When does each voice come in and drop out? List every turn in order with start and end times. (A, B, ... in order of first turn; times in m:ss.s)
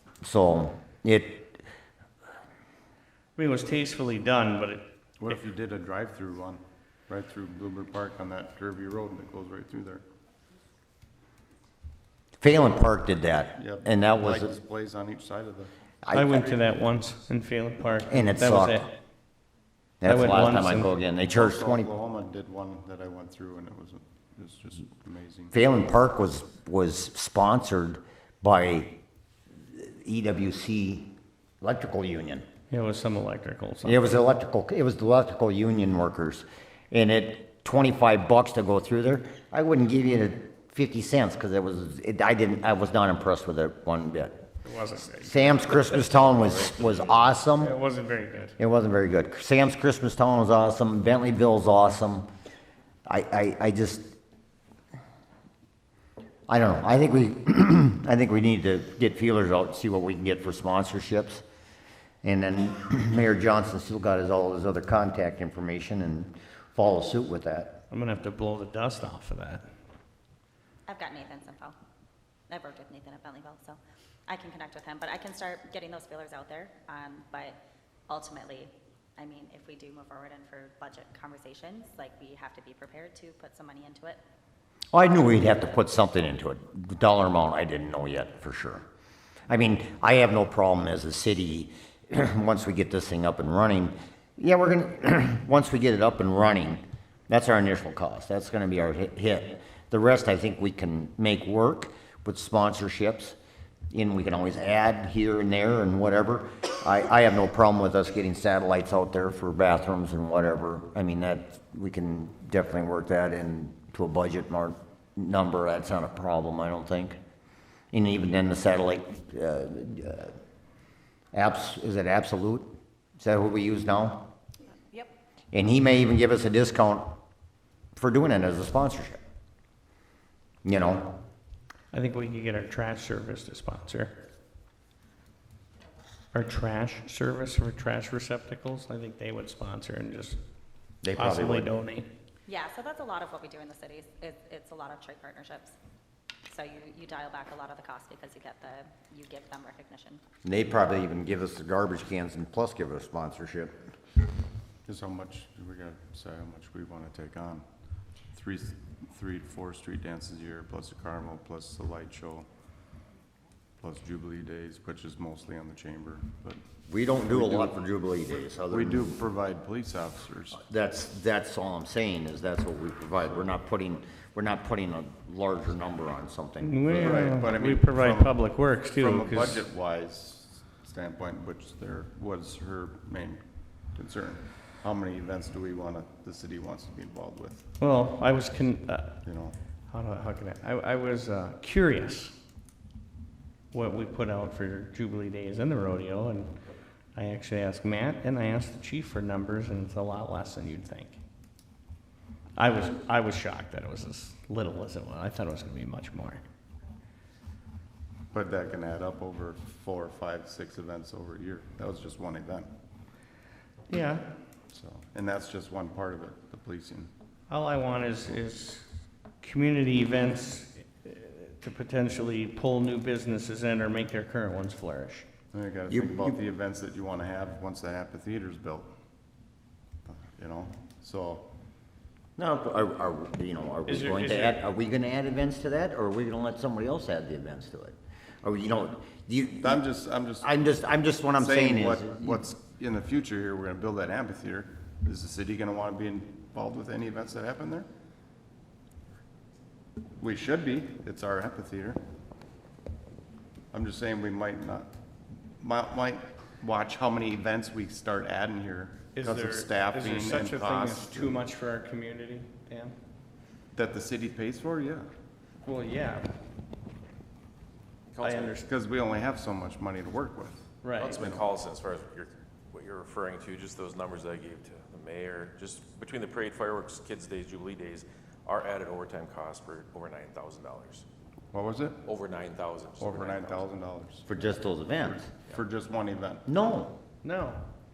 0:00.2-0:01.6 A
0:03.4-0:05.4 B
0:05.2-0:10.0 C
0:12.4-0:14.5 A
0:13.6-0:15.7 C
0:16.0-0:16.4 A
0:16.1-0:18.9 B
0:18.1-0:18.9 A
0:20.0-0:21.9 A
0:20.0-0:20.9 B
0:21.3-0:25.5 C
0:25.5-0:29.0 A
0:29.7-0:32.4 A
0:32.7-0:34.1 B
0:33.8-0:44.4 A
0:44.6-0:47.0 B
0:45.2-0:47.7 A
0:47.6-0:48.6 B
0:48.6-0:52.3 A
0:53.1-0:54.1 A
0:56.5-1:01.4 A
1:02.2-1:07.8 A
1:07.9-1:09.7 B
1:10.9-1:11.7 D
1:12.5-1:24.2 D
1:24.9-1:28.8 A
1:29.5-1:43.4 A
1:43.9-1:57.2 A
1:57.9-2:00.3 A
2:01.3-2:04.3 A
2:05.5-2:07.1 A
2:08.0-2:09.2 A
2:10.6-2:11.2 A
2:11.9-2:14.2 B
2:16.3-2:20.4 B
2:21.0-2:21.7 A
2:21.1-2:22.1 B
2:22.5-2:25.7 D
2:26.5-2:30.2 D
2:30.4-2:33.8 A
2:34.8-2:37.6 C
2:38.3-2:42.4 C
2:43.8-2:46.6 C
2:46.9-2:49.1 A
2:47.3-2:47.8 C
2:48.7-2:50.6 C
2:50.5-2:57.2 A
2:56.6-2:59.6 B
2:56.9-2:58.4 C
2:58.9-3:03.4 C
3:03.9-3:07.6 C
3:07.8-3:09.2 B
3:09.2-3:09.6 C
3:09.9-3:12.4 B
3:13.7-3:16.6 B
3:17.1-3:21.2 B
3:22.6-3:26.4 B
3:28.3-3:32.7 C
3:33.9-3:34.3 B
3:34.7-3:37.1 C
3:37.5-3:38.9 B
3:39.4-3:45.2 B
3:45.5-3:48.9 C
3:45.9-3:46.4 A
3:50.0-3:51.5 C
3:52.4-3:59.8 A
3:53.8-3:54.6 B
3:59.6-4:00.5 C
4:00.4-4:02.4 A
4:01.4-4:07.9 C
4:10.2-4:12.0 C
4:13.7-4:14.9 C
4:15.6-4:21.4 C
4:19.1-4:22.9 B
4:23.7-4:25.0 C
4:25.6-4:26.3 B
4:28.1-4:28.6 E
4:28.2-4:28.7 B
4:28.6-4:31.5 C
4:30.8-4:31.2 B
4:31.0-4:41.0 E
4:41.5-4:42.0 C
4:42.0-4:43.7 E
4:43.0-4:44.2 C
4:44.2-4:45.3 A
4:45.1-4:46.4 C
4:46.5-4:47.0 A
4:47.2-4:47.6 B